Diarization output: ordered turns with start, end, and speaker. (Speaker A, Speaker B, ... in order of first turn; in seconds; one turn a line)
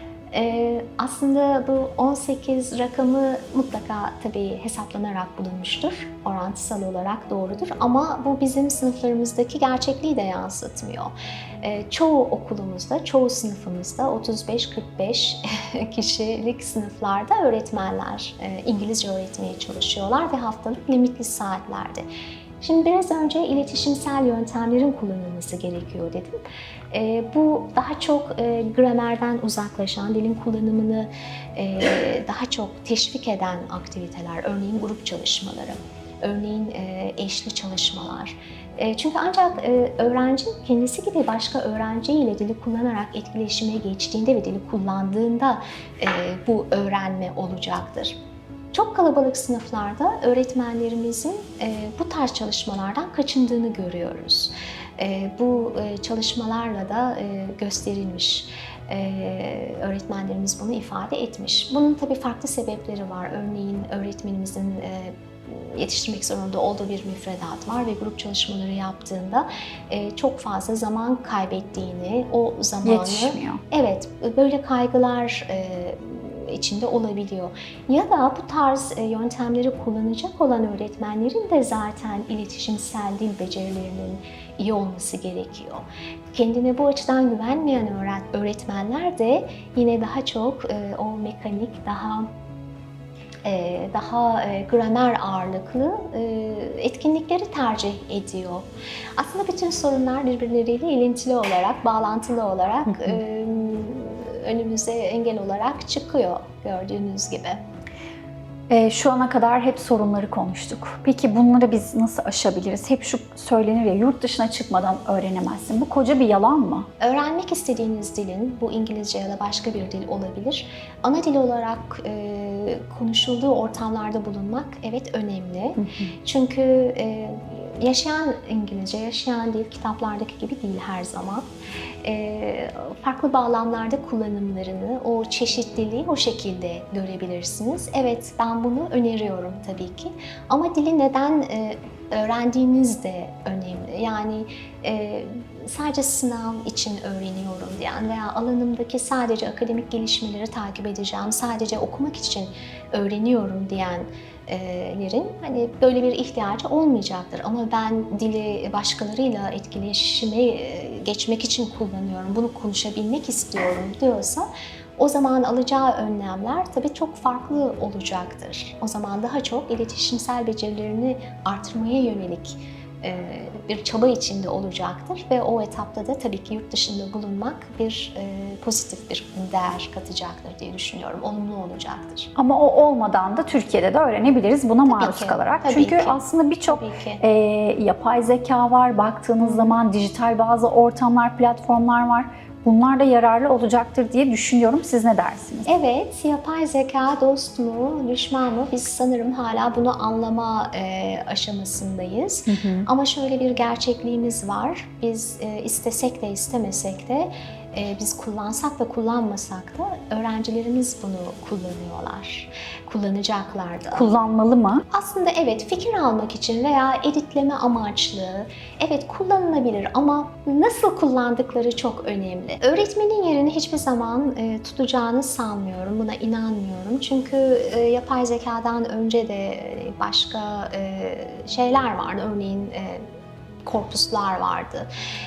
Speaker A: 0.3-22.0
Speaker A: 22.6-26.4
Speaker A: 26.9-48.2
Speaker A: 48.7-92.3
Speaker B: 72.8-73.6
Speaker A: 93.4-107.6
Speaker B: 108.7-116.9
Speaker A: 117.0-131.5
Speaker B: 125.8-126.1
Speaker A: 132.0-182.3
Speaker B: 182.3-195.7
Speaker A: 184.8-187.2
Speaker A: 189.4-189.7
Speaker A: 195.7-214.1
Speaker B: 202.5-202.9
Speaker B: 213.9-214.8
Speaker A: 214.9-233.0
Speaker A: 233.7-234.9